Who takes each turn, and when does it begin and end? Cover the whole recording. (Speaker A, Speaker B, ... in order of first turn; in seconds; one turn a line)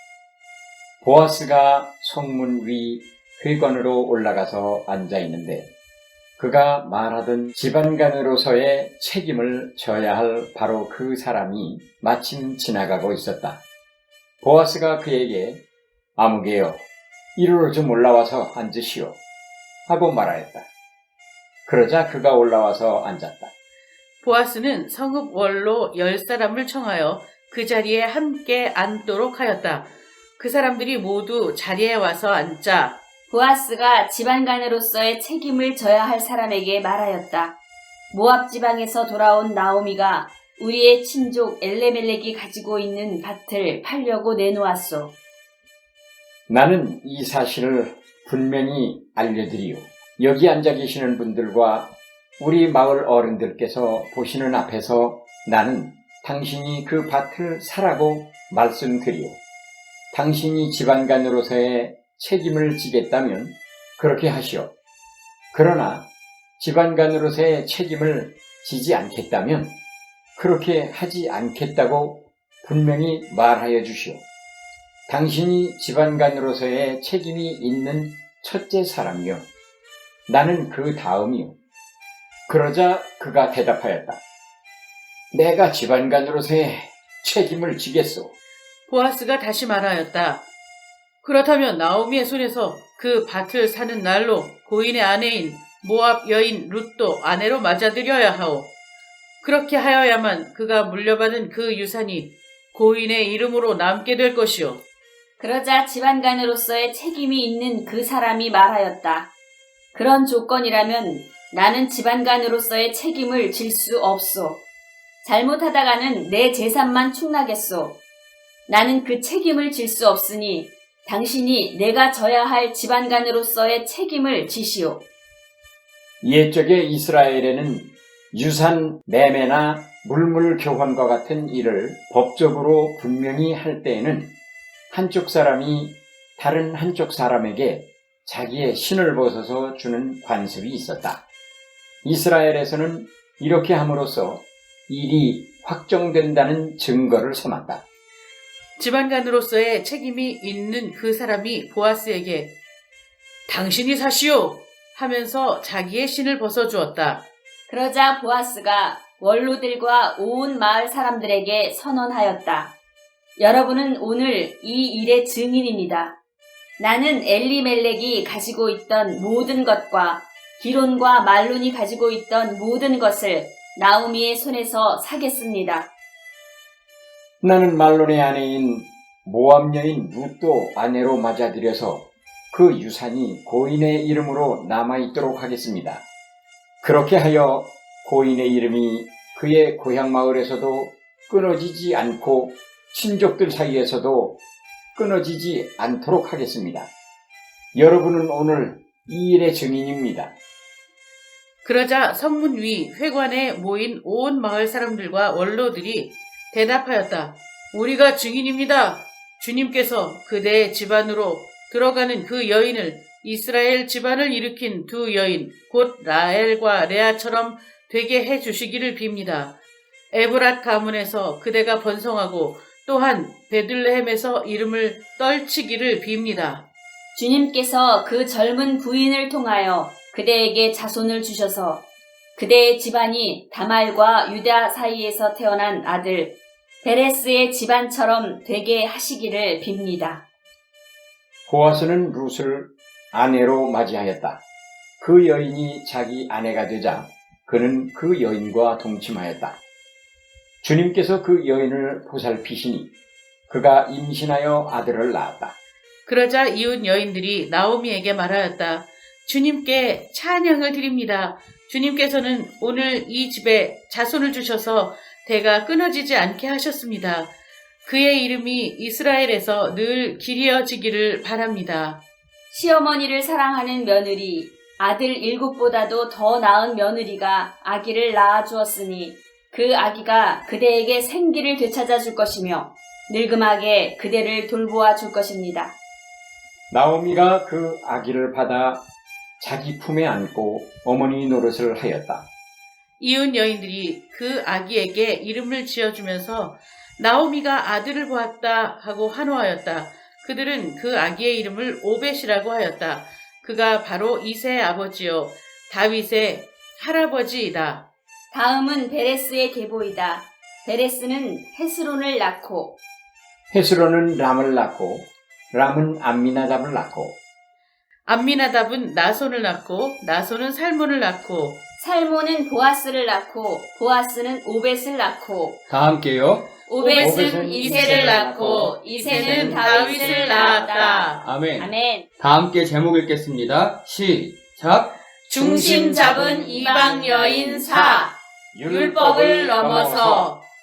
Speaker A: 1.0-5.7
Speaker A: 6.4-13.6
Speaker A: 14.4-15.6
Speaker A: 16.2-16.8
Speaker A: 17.4-19.2
Speaker A: 19.9-20.7
Speaker A: 21.7-23.5
Speaker B: 24.2-33.0
Speaker C: 33.3-37.6
Speaker C: 38.1-45.1
Speaker A: 46.5-59.4
Speaker A: 60.1-64.7
Speaker A: 65.5-66.1
Speaker A: 66.6-69.8
Speaker A: 70.4-74.2
Speaker A: 75.1-79.5
Speaker A: 80.3-81.6
Speaker A: 82.5-84.2
Speaker A: 85.3-88.3
Speaker B: 88.9-90.5
Speaker B: 91.2-98.7
Speaker B: 99.4-104.8
Speaker C: 105.4-109.3
Speaker C: 109.9-114.6
Speaker C: 115.2-118.0
Speaker C: 118.7-125.0
Speaker A: 126.2-134.4
Speaker A: 134.9-141.2
Speaker A: 142.0-147.8
Speaker B: 148.8-152.6
Speaker B: 153.5-157.2
Speaker C: 157.7-162.7
Speaker C: 163.4-166.2
Speaker C: 166.8-175.9
Speaker A: 177.4-186.0
Speaker A: 186.8-194.4
Speaker A: 195.0-196.9
Speaker A: 197.8-200.3
Speaker B: 201.6-219.6
Speaker B: 220.1-226.7
Speaker C: 227.2-231.8
Speaker C: 232.4-240.3
Speaker A: 241.5-244.4
Speaker A: 245.0-249.6
Speaker A: 250.6-252.9
Speaker A: 253.5-255.6
Speaker B: 256.1-267.3
Speaker B: 267.9-272.0
Speaker C: 272.5-285.8
Speaker A: 286.7-288.9
Speaker A: 289.4-292.3
Speaker B: 293.0-307.9
Speaker C: 308.3-312.8
Speaker A: 313.5-317.2
Speaker B: 318.1-321.6
Speaker C: 321.8-325.6
Speaker D: 325.7-326.5
Speaker C: 326.7-332.1
Speaker B: 326.8-331.3
Speaker A: 327.0-330.6
Speaker D: 331.1-335.8
Speaker B: 335.3-338.1
Speaker C: 335.4-338.1
Speaker A: 338.5-340.3
Speaker B: 338.7-340.4
Speaker C: 339.6-339.9